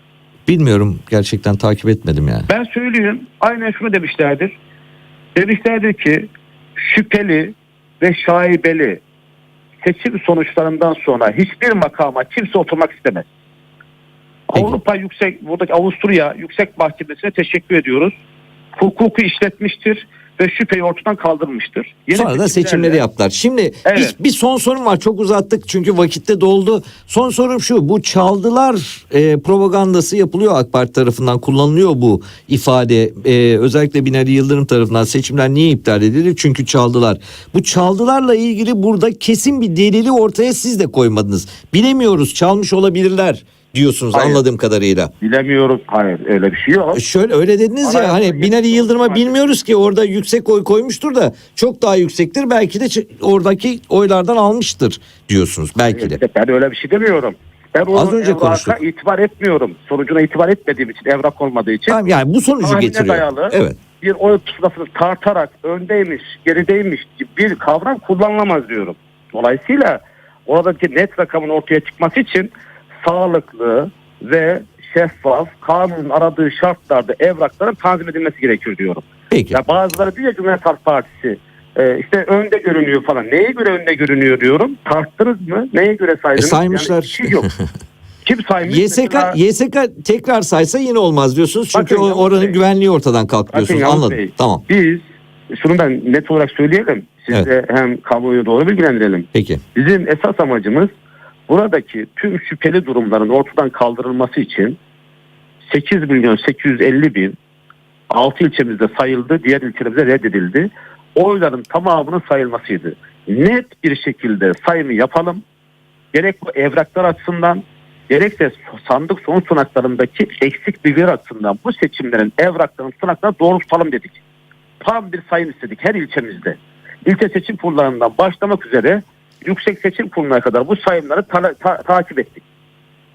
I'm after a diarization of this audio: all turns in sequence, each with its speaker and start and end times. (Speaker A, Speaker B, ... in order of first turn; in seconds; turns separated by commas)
Speaker A: 0.5-2.5, Speaker B: 2.5-4.5, Speaker B: 5.3-9.0, Speaker B: 9.8-13.3, Speaker B: 14.5-18.1, Speaker B: 18.8-23.0, Speaker A: 22.1-45.1, Speaker B: 23.8-24.1, Speaker B: 44.1-44.4, Speaker B: 45.2-47.0, Speaker A: 46.9-56.2, Speaker B: 47.8-49.5, Speaker B: 55.9-62.0, Speaker A: 57.9-58.8, Speaker A: 61.9-63.8, Speaker B: 62.6-72.5, Speaker B: 73.0-87.5, Speaker A: 79.3-79.6, Speaker A: 86.4-87.3, Speaker B: 88.2-89.3, Speaker A: 88.7-94.6, Speaker B: 91.7-92.6, Speaker B: 93.5-100.9, Speaker A: 99.3-99.6, Speaker B: 101.5-104.8, Speaker B: 105.7-107.4, Speaker B: 108.1-115.4, Speaker B: 116.1-124.2, Speaker B: 124.8-132.4